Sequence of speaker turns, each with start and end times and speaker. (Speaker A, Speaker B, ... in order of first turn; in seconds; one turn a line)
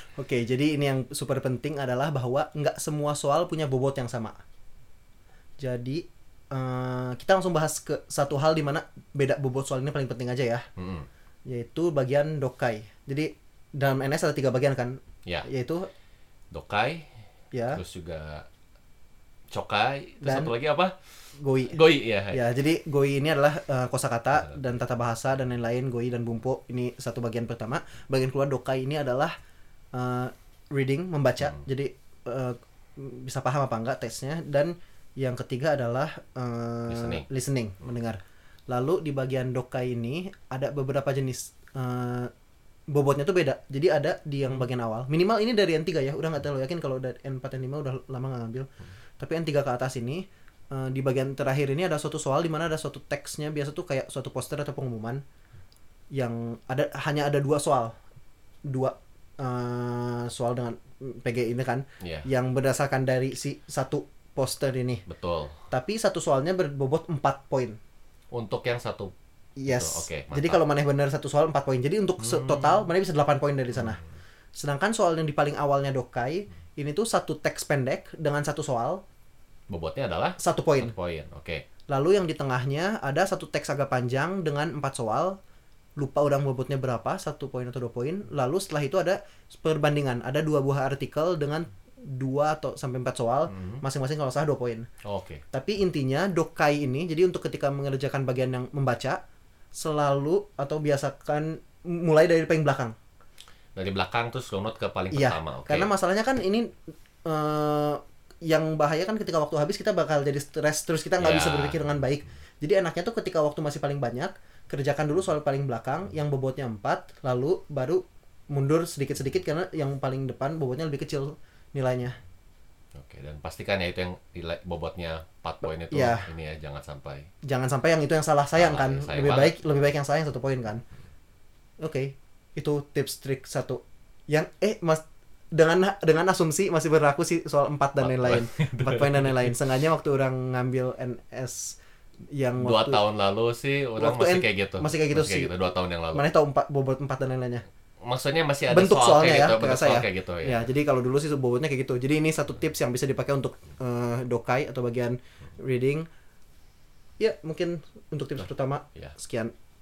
Speaker A: 0.1-4.4
Speaker A: 5.6-10.7
Speaker B: 10.8-11.1
Speaker A: 11.5-15.9
Speaker B: 16.5-17.1
Speaker A: 17.5-17.8
Speaker B: 17.7-18.4
Speaker B: 19.5-20.9
Speaker A: 20.2-20.5
Speaker A: 21.4-29.3
Speaker B: 21.7-22.4
Speaker A: 29.9-42.3
Speaker B: 36.9-37.2
Speaker A: 42.9-48.7
Speaker A: 49.2-55.2
Speaker A: 56.1-57.9
Speaker A: 58.7-65.0
Speaker B: 62.0-62.3
Speaker B: 65.1-65.6
Speaker A: 65.7-67.8
Speaker B: 68.3-69.1
Speaker A: 69.6-74.0
Speaker B: 69.7-70.6
Speaker B: 72.2-72.8
Speaker A: 74.5-79.0
Speaker B: 79.7-81.6
Speaker A: 80.4-80.9
Speaker A: 81.9-85.4
Speaker A: 86.0-94.9
Speaker B: 93.5-93.8
Speaker B: 95.0-95.4
Speaker A: 95.5-99.2
Speaker A: 99.7-102.9
Speaker B: 103.8-105.9
Speaker A: 105.1-106.7
Speaker A: 107.2-122.2
Speaker B: 111.2-112.0
Speaker B: 123.0-127.3
Speaker A: 125.9-126.3
Speaker A: 127.4-130.8
Speaker B: 128.6-129.6
Speaker A: 131.8-141.8
Speaker B: 138.0-139.5
Speaker A: 142.3-143.0
Speaker B: 142.6-146.2
Speaker A: 144.0-145.5
Speaker A: 146.1-147.6
Speaker B: 148.0-150.7
Speaker A: 148.7-156.1
Speaker A: 157.2-159.5